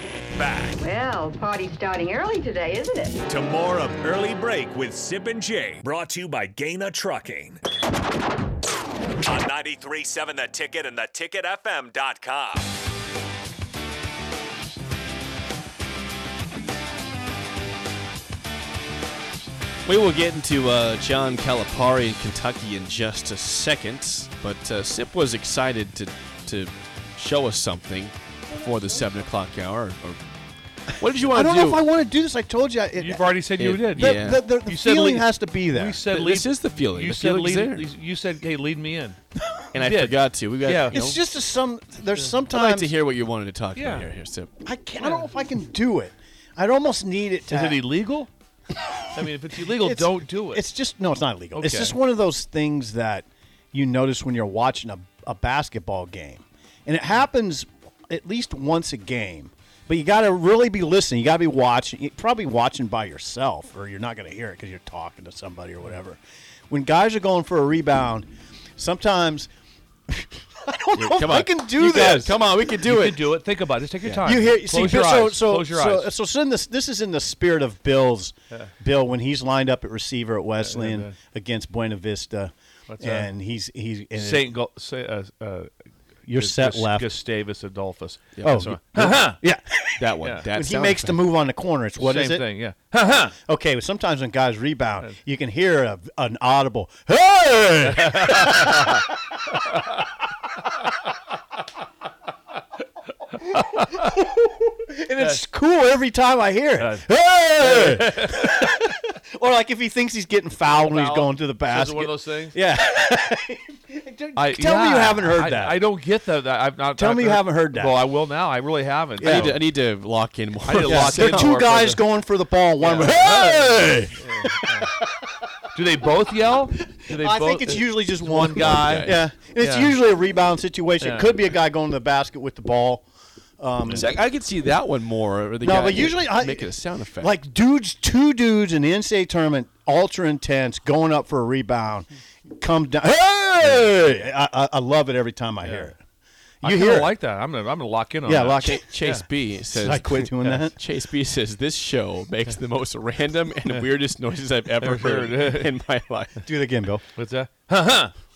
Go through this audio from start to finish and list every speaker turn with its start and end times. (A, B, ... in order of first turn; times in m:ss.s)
0:00.3-0:00.9 A
0:00.8-0:03.2 B
0:03.3-0:07.6 A
0:09.2-0:12.7 A
0:19.9-0:30.2 C
0:31.0-0:31.8 C
0:31.3-0:33.4 D
0:33.0-0:39.2 E
0:33.6-0:34.4 C
0:33.9-0:36.0 D
0:36.1-0:37.9 C
0:39.7-0:41.2 C
0:39.8-0:41.0 E
0:40.9-0:42.9 D
0:42.5-0:44.5 C
0:43.8-0:44.1 E
0:44.6-0:47.8 D
0:45.0-0:45.3 E
0:47.5-0:48.3 E
0:48.7-1:09.5 D
0:49.1-0:50.6 E
0:51.6-0:52.0 E
1:10.1-1:12.4 D
1:11.0-1:13.3 C
1:12.8-1:16.1 E
1:14.2-1:24.5 D
1:20.6-1:21.2 E
1:22.9-1:23.3 E
1:24.2-1:25.7 E
1:26.3-1:27.1 D
1:26.3-1:29.4 E
1:28.4-1:32.4 D
1:30.0-1:31.2 C
1:32.0-1:33.4 E
1:33.3-1:39.6 D
1:37.9-1:39.0 E
1:39.6-1:40.0 E
1:43.4-1:55.8 D
1:43.5-1:44.0 E
1:46.8-1:47.0 E
1:47.6-1:48.9 E
1:50.8-1:52.6 E
1:54.4-1:59.6 E
1:57.0-1:58.0 D
1:59.2-1:59.6 D
1:59.2-2:01.5 C
2:00.7-2:02.0 E
2:00.8-2:05.5 D
2:02.8-2:04.9 E
2:05.7-2:09.9 E
2:06.8-2:13.0 D
2:08.3-2:09.2 C
2:11.0-2:11.4 E
2:13.6-2:14.1 D
2:13.9-2:17.3 C
2:15.6-2:26.0 D
2:25.6-2:25.9 E
2:26.6-2:27.1 D
2:26.6-2:29.2 E
2:28.3-2:28.9 D
2:28.6-2:36.4 C
2:29.7-2:30.8 D
2:34.8-2:35.7 E
2:36.4-2:37.0 D
2:37.2-2:38.1 E